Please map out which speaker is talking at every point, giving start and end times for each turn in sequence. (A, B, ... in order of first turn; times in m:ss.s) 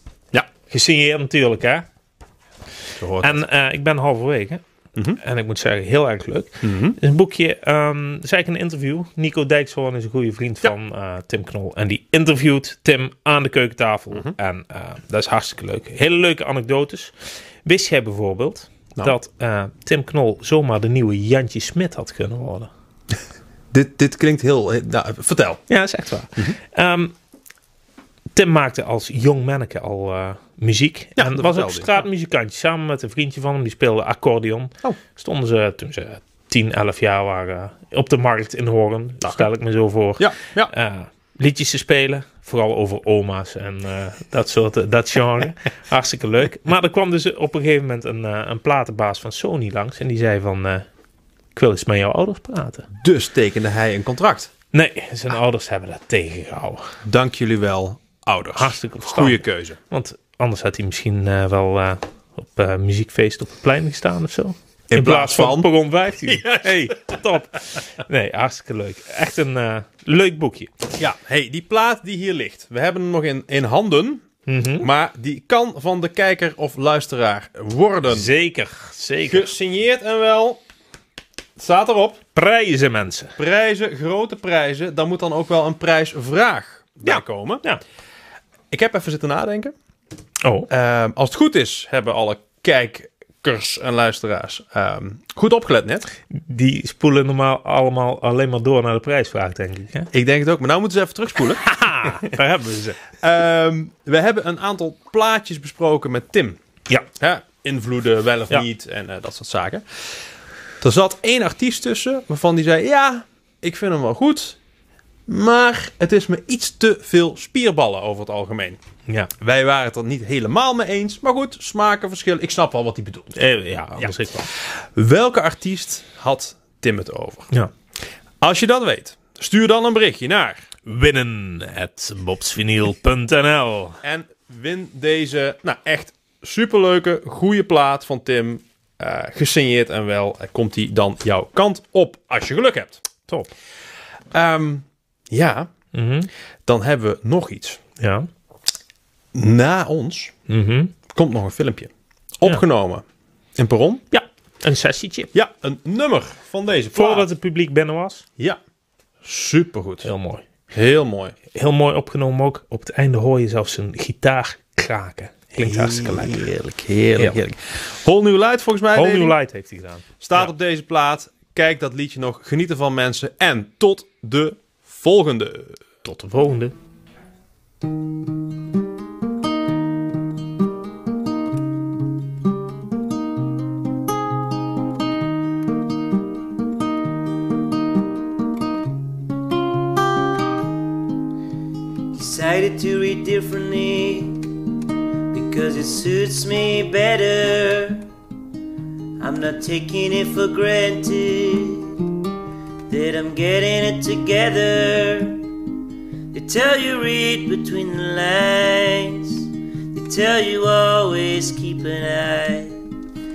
0:00.7-0:01.8 A
0:03.0-0:03.4 B
0:03.2-0:04.6 A
0:05.2-0:22.7 A
0:06.6-0:07.0 B
0:23.7-0:25.6 B
0:25.7-0:27.1 A
0:28.3-0:50.8 A
0:31.2-0:32.0 B
0:40.2-0:40.7 B
0:51.5-0:52.9 A
0:53.0-0:54.5 B
0:54.7-0:57.0 A
0:57.0-0:59.8 B
0:58.6-1:10.7 A
1:04.9-1:05.7 B
1:06.2-1:07.1 B
1:11.0-1:14.2 B
1:14.5-1:14.9 A
1:14.8-1:18.3 B
1:18.1-1:19.5 A
1:19.3-1:20.6 B
1:21.6-1:22.2 B
1:22.3-1:23.4 A
1:23.4-1:27.6 B
1:27.0-1:27.8 A
1:28.7-1:29.7 B
1:30.4-1:30.7 A
1:30.7-1:36.1 B
1:36.3-1:40.1 A
1:40.1-1:42.3 B
1:41.6-1:43.0 A
1:43.2-1:46.6 B
1:47.1-1:50.2 B
1:50.8-1:54.6 B
1:55.3-1:58.8 B
1:59.4-2:03.4 B
2:03.4-2:04.5 A
2:04.0-2:07.5 B
2:08.4-2:10.7 B
2:10.8-2:14.0 A
2:14.0-2:23.0 B
2:24.3-2:25.7 B
2:25.9-2:26.3 A
2:26.6-2:27.8 B
2:28.0-2:28.3 A
2:29.3-2:30.4 B
2:30.5-2:30.9 A
2:31.1-2:33.0 B
2:33.6-2:34.0 B
2:34.1-2:35.3 A
2:35.3-2:37.3 B
2:36.9-2:38.2 A
2:39.2-2:40.1 B
2:40.0-2:40.4 A
2:40.7-2:41.4 B
2:41.5-2:46.5 A
2:45.6-2:49.4 B
2:47.2-2:47.4 A
2:48.9-2:50.5 A
2:50.2-2:55.8 B
2:56.0-2:56.7 A
3:12.1-3:14.4 C
3:15.3-3:18.0 C
3:19.2-3:22.0 C
3:22.9-3:25.4 C
3:26.3-3:32.8 C